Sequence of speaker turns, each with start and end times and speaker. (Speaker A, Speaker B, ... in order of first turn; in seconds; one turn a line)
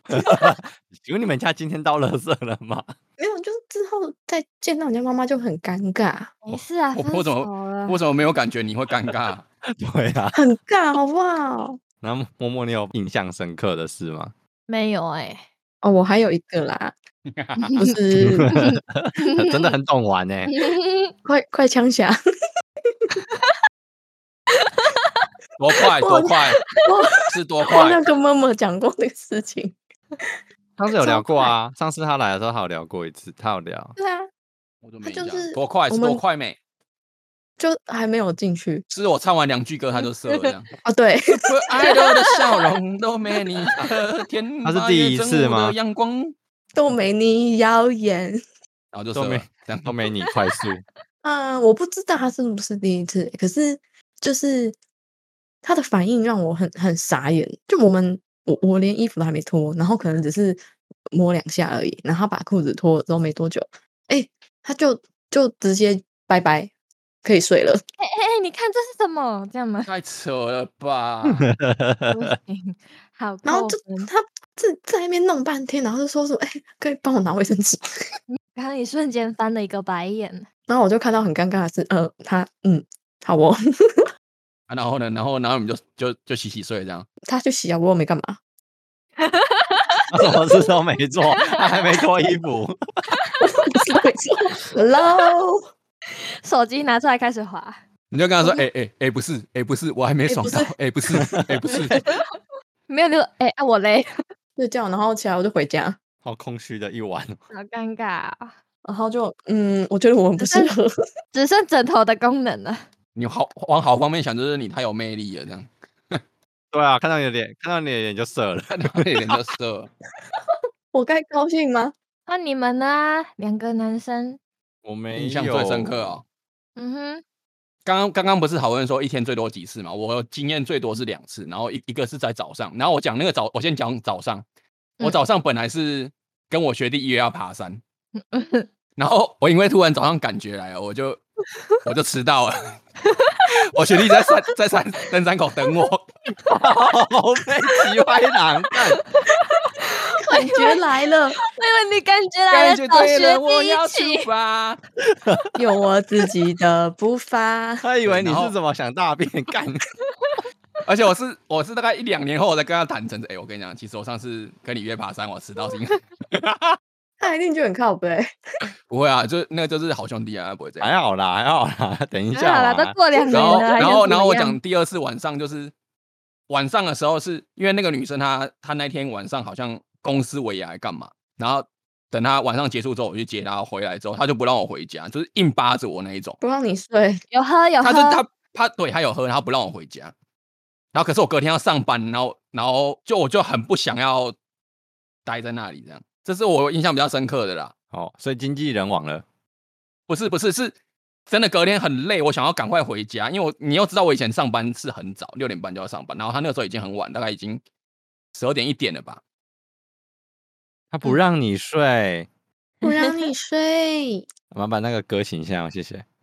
Speaker A: 0.1-2.9
Speaker B: 3.2-6.3
Speaker C: 6.4-8.0
Speaker D: 7.0-9.4
Speaker A: 9.7-10.4
Speaker B: 10.3-11.8
Speaker A: 12.0-14.3
Speaker C: 14.7-15.4
Speaker B: 15.8-16.9
Speaker D: 17.3-17.8
Speaker C: 17.6-18.0
Speaker B: 17.8-18.5
Speaker A: 18.2-20.5
Speaker C: 18.5-19.7
Speaker C: 20.5-21.1
Speaker B: 21.2-22.2
Speaker C: 24.5-25.3
Speaker D: 25.6-26.6
Speaker B: 26.0-30.4
Speaker D: 27.3-28.0
Speaker A: 30.8-34.0
Speaker B: 30.9-31.5
Speaker B: 34.0-34.3
Speaker D: 34.8-36.6
Speaker B: 35.0-36.2
Speaker B: 37.6-38.9
Speaker D: 38.9-40.7
Speaker B: 40.9-41.5
Speaker D: 41.5-46.3
Speaker C: 41.9-42.3
Speaker A: 44.6-45.8
Speaker B: 46.8-48.4
Speaker D: 48.9-50.0
Speaker A: 49.1-50.8
Speaker B: 51.2-54.8
Speaker B: 55.6-60.6
Speaker B: 61.1-66.7
Speaker B: 67.2-67.8
Speaker C: 68.0-69.9
Speaker D: 69.9-71.5
Speaker A: 71.2-72.3
Speaker C: 72.1-74.1
Speaker B: 73.5-77.8
Speaker C: 78.3-80.5
Speaker B: 80.7-84.1
Speaker D: 84.7-87.1
Speaker B: 87.3-88.4
Speaker C: 89.2-90.1
Speaker A: 90.1-92.8
Speaker C: 91.3-91.6
Speaker C: 93.1-93.8
Speaker B: 93.5-95.6
Speaker C: 96.4-97.8
Speaker D: 98.1-102.1
Speaker B: 100.3-100.7
Speaker A: 101.2-101.7
Speaker C: 102.9-104.2
Speaker B: 104.6-106.0
Speaker A: 106.2-107.4
Speaker C: 107.5-108.5
Speaker B: 108.8-110.9
Speaker C: 110.4-110.7
Speaker C: 111.3-112.9
Speaker D: 113.2-116.2
Speaker A: 116.7-119.4
Speaker D: 118.7-119.9
Speaker B: 120.9-121.9
Speaker C: 122.3-124.4
Speaker A: 124.8-126.2
Speaker D: 125.1-126.2
Speaker C: 126.8-127.2
Speaker D: 127.8-134.4
Speaker D: 135.0-137.8
Speaker C: 138.2-138.7
Speaker D: 139.0-141.2
Speaker D: 141.8-142.8
Speaker C: 143.1-144.0
Speaker D: 143.5-146.1
Speaker A: 146.5-149.0
Speaker C: 149.1-150.8
Speaker B: 150.2-151.4
Speaker C: 151.4-154.3
Speaker D: 152.5-154.8
Speaker A: 155.1-155.6
Speaker B: 155.6-157.8
Speaker A: 157.8-159.9
Speaker D: 158.1-158.6
Speaker D: 160.8-166.0
Speaker A: 166.3-166.8
Speaker B: 167.2-168.3
Speaker D: 168.9-170.9
Speaker A: 170.8-173.0
Speaker C: 172.3-174.6
Speaker B: 173.2-173.7
Speaker D: 173.3-175.7
Speaker D: 176.5-186.4
Speaker B: 186.4-187.2
Speaker C: 187.3-188.2
Speaker D: 187.8-190.1
Speaker D: 190.9-194.3
Speaker D: 195.3-197.7
Speaker A: 197.9-199.2
Speaker D: 200.1-200.7
Speaker D: 201.3-207.6
Speaker D: 208.3-209.2
Speaker A: 210.9-212.3
Speaker B: 212.8-214.3
Speaker A: 214.5-216.0